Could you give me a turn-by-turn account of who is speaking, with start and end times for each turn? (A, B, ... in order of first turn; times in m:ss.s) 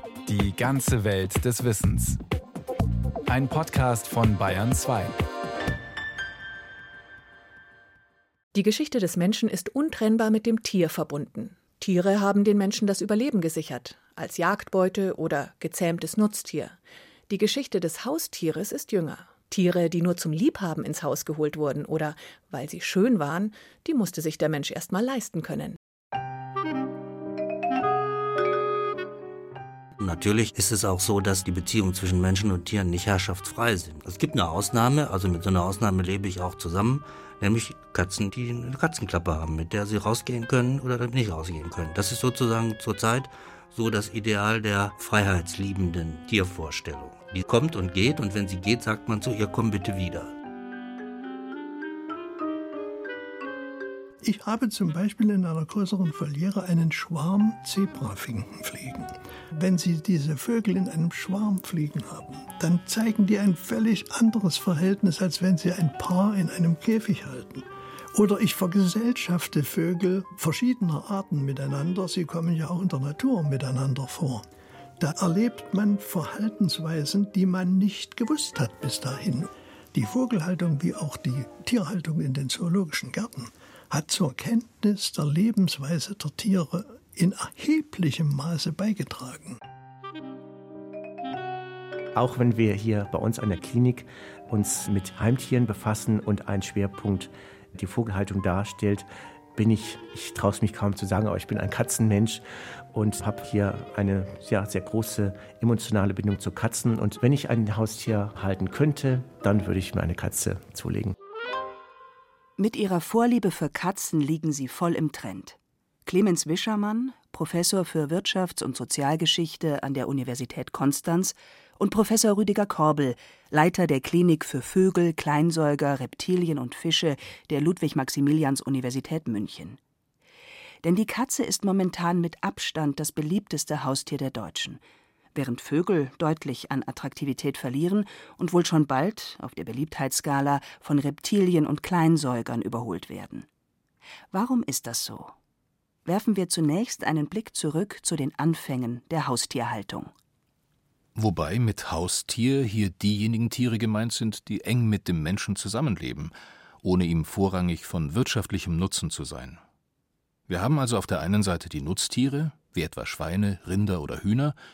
0:00.2-0:02.2 A
0:03.3-0:05.2 A
0:08.5-0:25.8 B
0:30.0-0:50.3 C
0:54.2-1:14.4 D
1:15.0-1:29.6 D
1:32.2-1:51.2 E
1:52.6-2:09.8 F
2:10.8-2:14.8 F
2:15.4-2:23.5 F
2:24.3-2:25.3 F
2:26.0-2:30.1 F
2:31.2-2:39.6 G
2:40.5-2:44.6 G